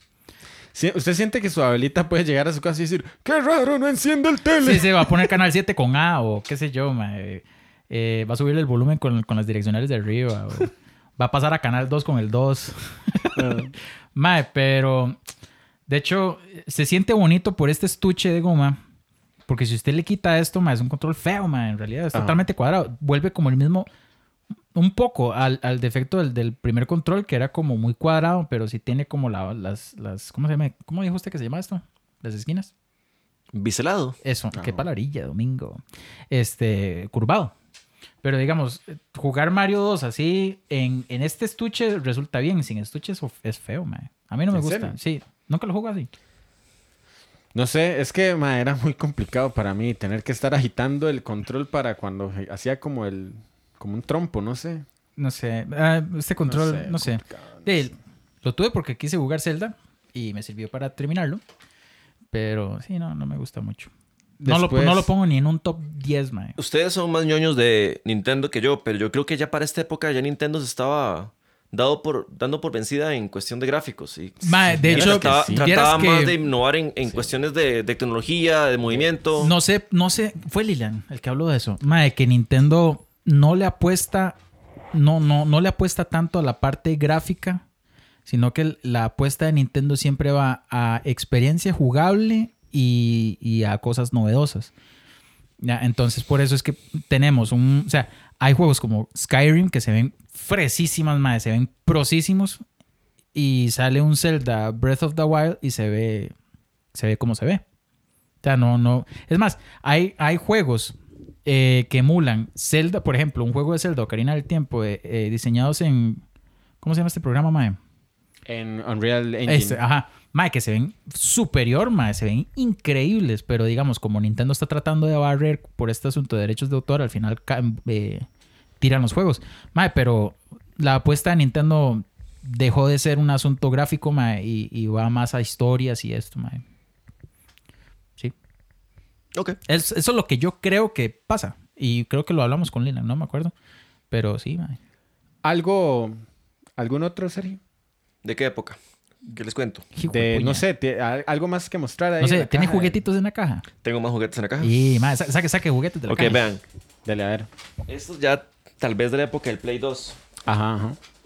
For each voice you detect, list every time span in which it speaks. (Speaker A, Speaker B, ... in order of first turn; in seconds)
Speaker A: 0.7-5.3, 13.4-13.7, 22.1-22.4, 34.5-34.9, 44.5-45.0, 47.5-54.9, 56.5-57.9, 64.4-65.1, 74.7-75.9, 77.1-77.3, 118.5-119.8, 145.4-146.2, 146.8-147.6, 150.1-153.0, 157.1-157.5, 160.5-161.0
Speaker B: 4.6-13.6, 14.2-15.2, 15.9-18.8, 19.5-23.9, 24.8-32.7, 34.2-37.5, 38.2-46.1, 55.2-61.4, 62.3-63.9, 64.4-66.6, 74.4-76.3, 79.4-84.4, 84.9-87.6, 88.3-94.7, 95.6-102.6, 103.3-106.3, 106.9-107.6, 108.4-116.2, 116.8-117.8, 119.5-128.3, 128.8-136.6, 139.7-143.5, 144.1-144.8, 149.9-150.7, 152.2-153.7, 154.6-156.4
Speaker C: 33.5-34.2, 66.6-79.5, 148.2-149.8, 153.8-154.7, 156.1-156.6, 157.9-160.2